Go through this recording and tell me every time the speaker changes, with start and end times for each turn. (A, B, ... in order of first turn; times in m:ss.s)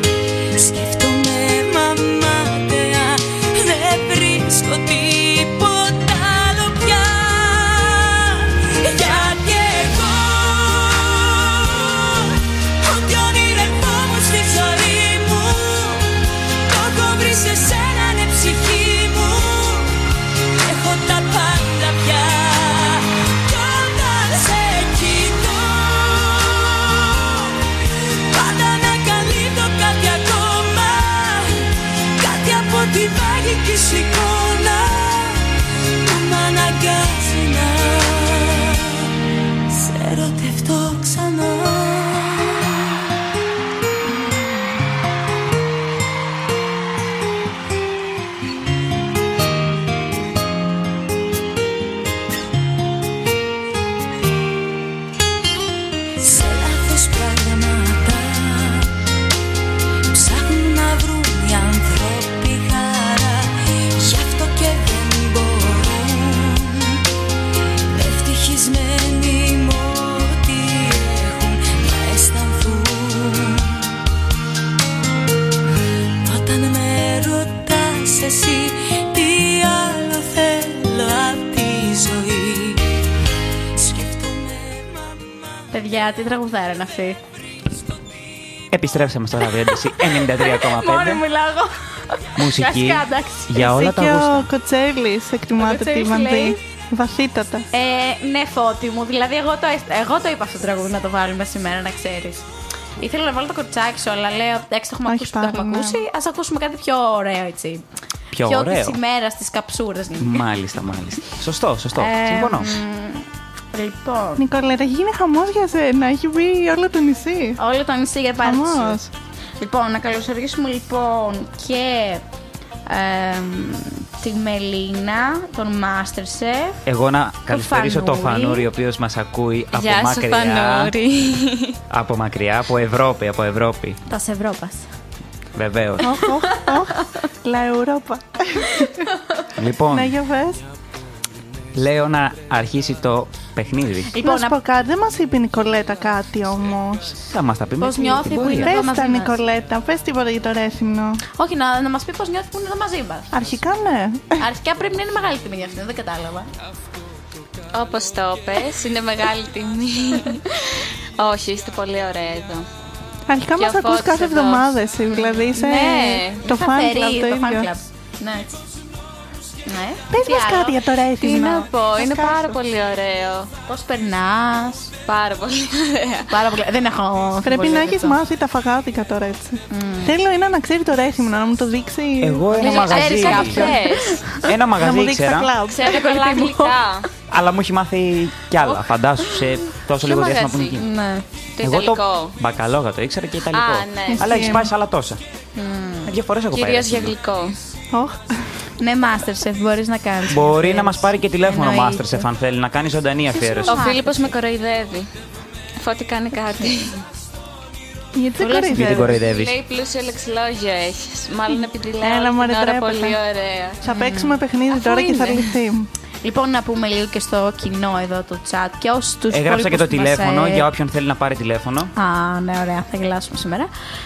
0:00.6-0:39.1 A
0:39.7-0:43.0 A
0:56.2-0:58.9 A
1:00.1-1:07.0 A
1:07.9-1:14.0 A
1:16.2-1:22.9 A
1:23.7-1:25.6 A
1:25.7-1:27.2 B
1:28.7-1:31.2 C
1:29.6-1:33.6 B
1:32.4-1:34.5 C
1:33.5-1:37.6 D
1:35.6-1:36.6 B
1:37.7-1:42.4 B
1:43.0-1:47.8 B
1:45.1-1:46.0 D
1:48.3-1:49.0 C
1:48.4-1:50.4 B
1:50.2-1:52.7 C
1:51.9-1:54.4 B
1:54.4-1:57.6 D
1:57.6-1:59.0 B
1:58.4-1:59.1 D
1:59.6-2:02.2 B
2:02.8-2:06.8 B
2:06.8-2:10.9 C
2:07.5-2:08.6 B
2:09.7-2:11.8 E
2:11.9-2:14.0 C
2:14.1-2:14.8 B
2:15.5-2:16.1 C
2:16.0-2:19.0 D
2:19.5-2:20.2 C
2:19.9-2:20.6 D
2:21.7-2:24.1 C
2:24.1-2:24.6 B
2:24.2-2:27.2 D
2:27.2-2:28.8 C
2:27.8-2:29.3 B
2:28.6-2:31.2 D
2:31.3-2:33.3 B
2:33.3-2:34.4 D
2:34.4-2:36.5 B
2:37.7-2:42.6 E
2:43.3-2:47.7 D
2:43.6-2:46.4 E
2:46.4-2:48.6 B
2:49.6-2:50.8 B
2:50.1-2:52.6 D
2:51.2-2:53.5 E
2:53.7-2:54.9 B
2:55.0-2:56.3 E
2:56.3-2:58.2 B
2:57.4-3:02.7 D
2:59.7-3:00.2 B
3:02.2-3:03.6 C
3:02.6-3:04.2 E
3:02.6-3:04.4 B
3:03.2-3:03.8 D
3:04.4-3:05.5 C
3:04.5-3:05.9 D
3:05.7-3:07.1 E
3:05.8-3:06.8 B
3:07.3-3:10.8 C
3:10.0-3:10.8 E
3:10.8-3:11.2 B
3:11.6-3:12.4 E
3:11.6-3:15.2 C
3:13.5-3:14.5 E
3:14.1-3:14.7 D
3:15.6-3:16.2 B
3:16.0-3:17.1 C
3:16.5-3:17.6 E
3:17.9-3:18.5 D
3:18.8-3:22.3 B
3:20.3-3:23.8 C
3:23.3-3:24.3 B
3:23.7-3:25.1 E
3:25.8-3:27.0 E
3:28.1-3:29.2 D
3:28.4-3:29.2 B
3:28.7-3:29.6 C
3:29.2-3:33.8 E
3:32.0-3:33.2 D
3:33.8-3:35.9 D
3:33.8-3:35.4 B
3:36.2-3:40.6 B
3:39.3-3:41.9 C
3:42.0-3:43.7 B